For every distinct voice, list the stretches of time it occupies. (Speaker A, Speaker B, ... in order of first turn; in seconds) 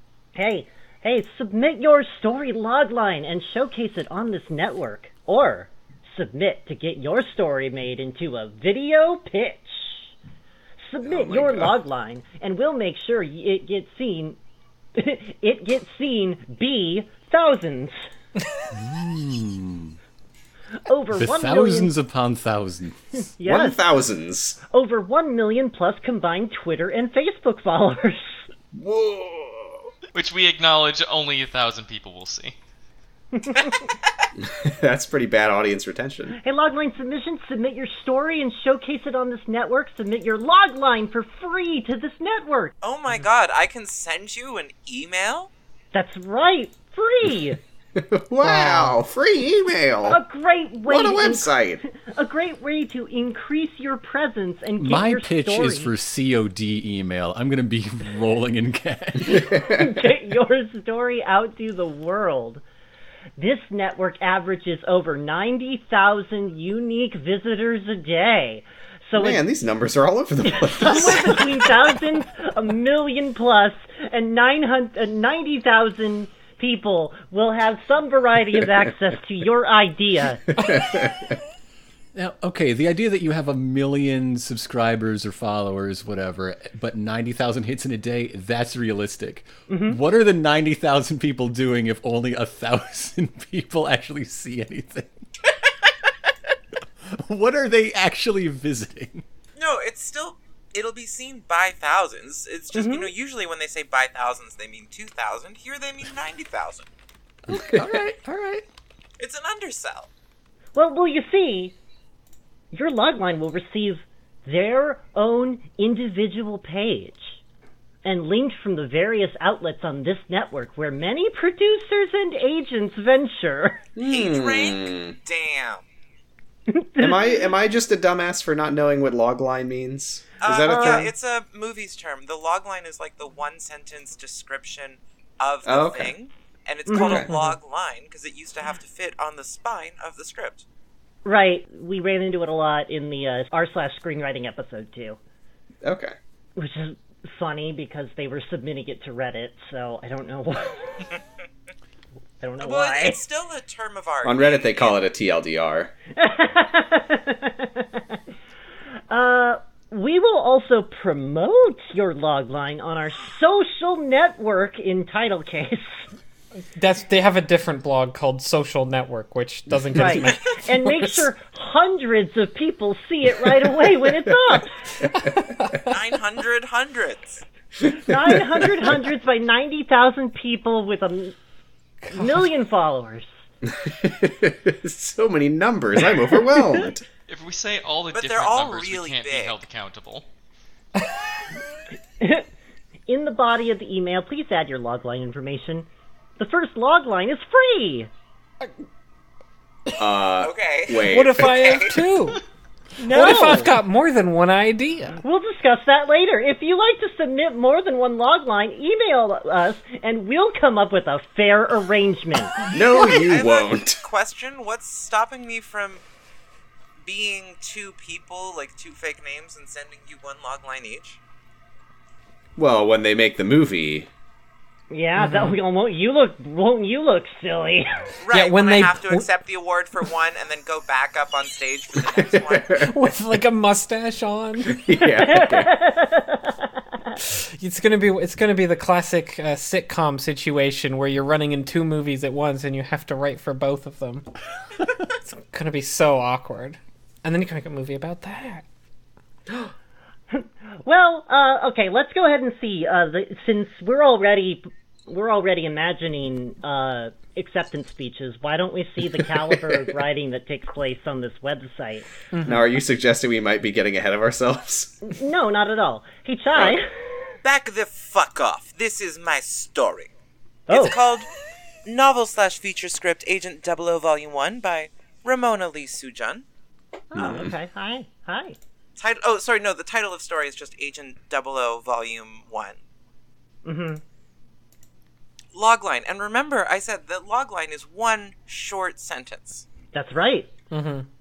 Speaker A: 0.3-10.1, 10.8-14.4, 14.9-18.0, 20.8-21.9, 23.4-23.8, 24.7-28.4, 33.3-33.9, 36.4-42.7, 45.9-47.6, 50.1-55.9, 59.4-62.6, 63.4-69.4, 70.5-80.6, 89.7-90.0, 102.7-103.1, 110.7-111.8, 112.7-117.4, 118.0-123.9, 126.7-127.3, 130.6-131.1, 136.9-137.6, 141.2-145.2, 146.6-151.1, 152.4-153.2, 156.1-158.2, 159.1-166.1, 169.9-174.9, 177.9-181.3, 182.1-183.3, 192.2-192.4, 193.1-195.9, 196.4-198.1, 203.0-203.8, 205.2-212.7, 224.9-228.0, 235.2-236.7, 250.3-262.1, 265.0-267.0, 270.7-271.0, 277.1-278.6, 283.6-284.0, 289.9-290.5
Speaker B: 11.0-11.8, 23.4-24.6, 28.7-29.9, 34.4-36.4, 47.9-50.2, 50.8-51.8, 59.3-60.1, 69.1-71.9, 80.6-81.4, 107.5-108.1, 124.0-125.2, 127.0-131.1, 135.6-136.1, 137.0-137.3, 145.8-146.2, 154.2-155.9, 169.7-171.2, 178.1-178.7, 183.6-187.0, 200.0-201.6, 212.7-214.0, 222.6-224.1, 232.0-232.9, 234.7-235.7, 262.4-265.0, 277.1-277.5
Speaker C: 18.7-19.9, 21.1-23.2, 54.8-59.5, 82.1-95.2, 97.1-99.2, 107.5-108.6
Speaker D: 30.1-32.6, 187.3-190.2
Speaker E: 42.8-45.5, 99.6-106.9, 109.2-110.1, 124.0-125.8, 130.4-140.6, 152.6-155.0, 175.8-177.4, 188.1-189.6, 200.4-202.0, 213.2-216.0, 217.0-221.2, 228.2-232.8, 267.4-270.1, 270.7-271.3, 271.9-276.5, 279.0-282.8, 285.5-289.6
Speaker F: 48.4-49.0, 166.7-170.5, 175.2-175.9, 182.0-182.5, 201.1-202.4, 203.1-205.2, 225.2-225.6, 228.3-229.2, 232.8-234.8, 237.4-244.3, 245.2-248.6, 262.3-262.6, 290.7-291.1